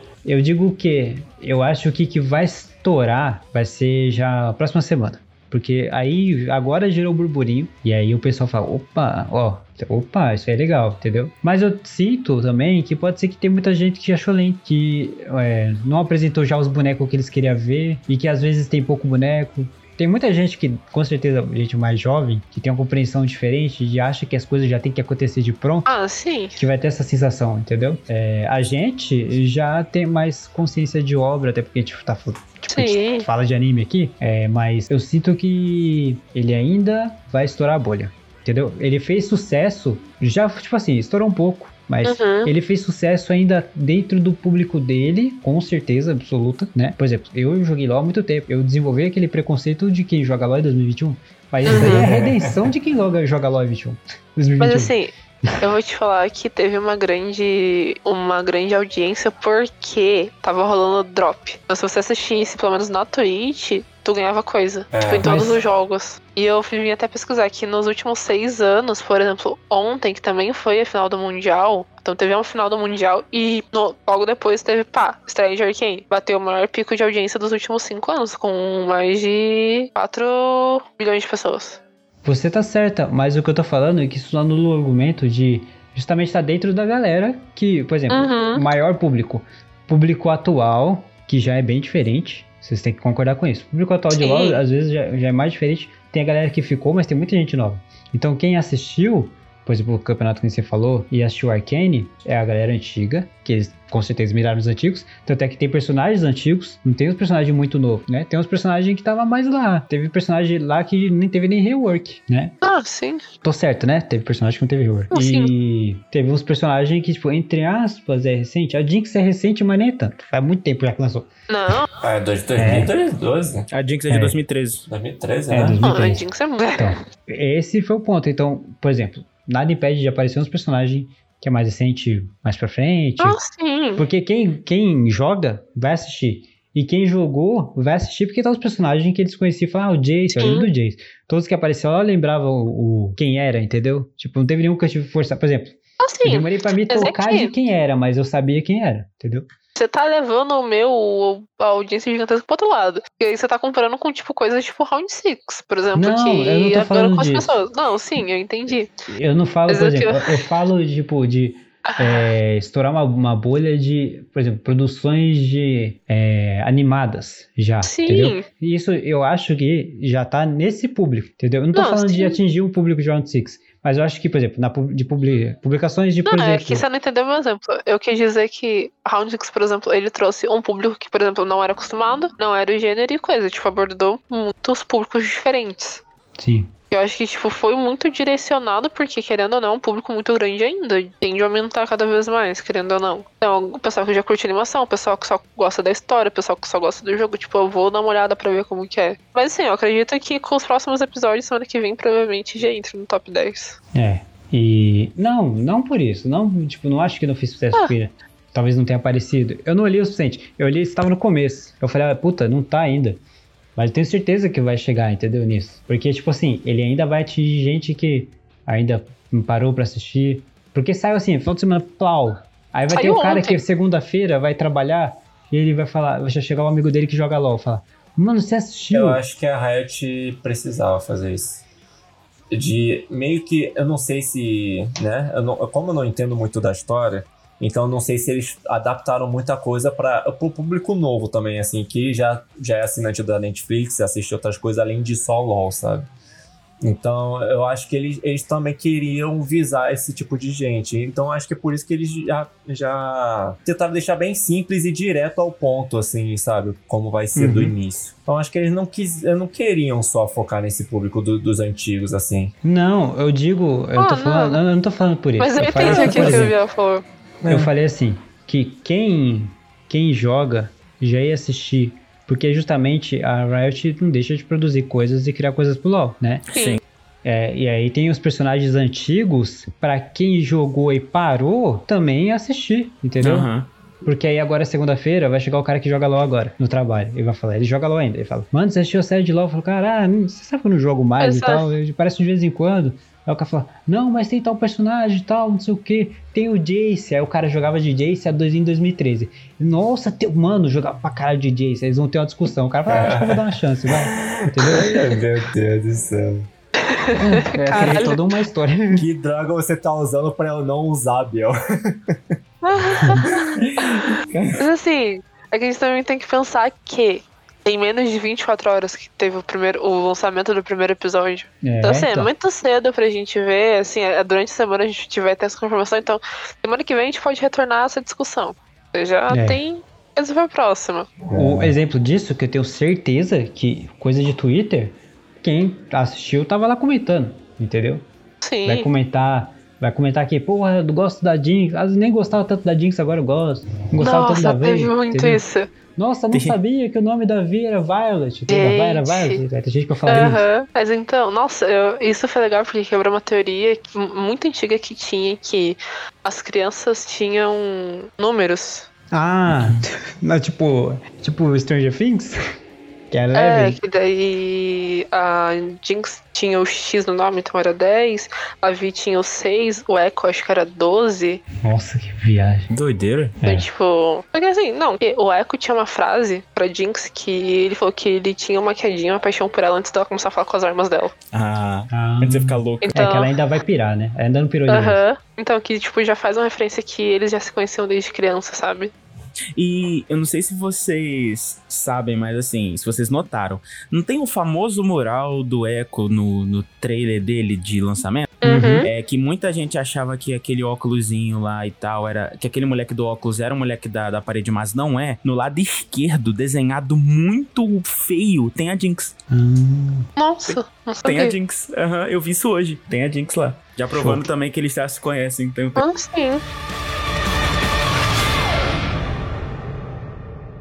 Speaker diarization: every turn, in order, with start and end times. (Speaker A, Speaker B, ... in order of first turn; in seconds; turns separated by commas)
Speaker A: 0.2-25.9, Speaker B: 25.9-26.6, Speaker A: 26.6-54.9, Speaker B: 32.7-33.3, Speaker B: 42.0-42.5, Speaker C: 51.6-52.7, Speaker B: 51.6-52.1, Speaker B: 54.6-81.8, Speaker C: 64.9-65.5, Speaker A: 65.2-65.5, Speaker A: 82.2-112.5, Speaker B: 88.1-88.6, Speaker B: 94.2-94.6, Speaker B: 112.6-113.2, Speaker A: 113.4-121.3, Speaker B: 115.1-115.5, Speaker B: 121.5-121.9, Speaker C: 122.0-123.7, Speaker A: 122.5-122.9, Speaker D: 123.7-124.9, Speaker A: 124.1-124.4, Speaker C: 124.9-125.8, Speaker A: 125.5-126.2, Speaker B: 125.8-126.9, Speaker A: 126.8-133.4, Speaker B: 133.2-134.0, Speaker A: 133.9-149.5, Speaker B: 140.3-140.7, Speaker B: 146.0-147.5, Speaker B: 149.8-158.9, Speaker A: 155.9-157.6, Speaker A: 159.1-176.8, Speaker B: 159.7-160.4, Speaker B: 161.9-162.2, Speaker B: 167.8-168.5, Speaker B: 171.7-172.4, Speaker B: 176.2-186.0, Speaker A: 186.4-186.7, Speaker B: 186.9-203.8, Speaker A: 203.9-213.2, Speaker A: 213.8-229.2, Speaker B: 222.9-223.6, Speaker C: 228.9-231.6, Speaker C: 232.5-246.1, Speaker C: 246.8-262.5, Speaker A: 257.3-257.8, Speaker A: 262.6-266.5, Speaker B: 263.9-264.6, Speaker B: 265.4-267.0, Speaker C: 265.8-266.5, Speaker C: 267.4-267.7, Speaker A: 267.4-276.4, Speaker B: 276.5-276.8, Speaker D: 276.5-276.8, Speaker A: 277.2-283.5, Speaker D: 283.2-283.7, Speaker A: 284.0-305.2, Speaker B: 291.2-291.7, Speaker C: 302.9-306.5, Speaker B: 306.8-308.2, Speaker A: 307.2-309.1, Speaker C: 308.9-312.4, Speaker B: 312.6-314.0, Speaker C: 312.9-314.6, Speaker B: 314.6-331.1, Speaker A: 321.6-322.3, Speaker A: 329.3-329.6, Speaker C: 331.3-331.7, Speaker A: 331.3-338.1, Speaker B: 338.4-338.9, Speaker A: 338.6-350.4, Speaker B: 344.0-345.7, Speaker D: 346.3-346.6, Speaker B: 348.5-349.4, Speaker B: 350.1-358.9, Speaker A: 359.1-362.4, Speaker A: 363.1-363.8, Speaker B: 363.3-371.4, Speaker A: 371.6-372.7, Speaker D: 372.7-373.4, Speaker A: 373.4-373.7, Speaker B: 373.4-381.1, Speaker D: 381.3-382.9, Speaker A: 381.9-385.0, Speaker B: 382.8-383.3, Speaker B: 384.7-388.9, Speaker D: 389.6-409.1, Speaker B: 398.4-398.9, Speaker A: 398.4-398.8, Speaker A: 409.3-410.1, Speaker B: 410.2-411.3, Speaker D: 410.5-415.8, Speaker A: 413.9-414.2, Speaker B: 415.8-416.4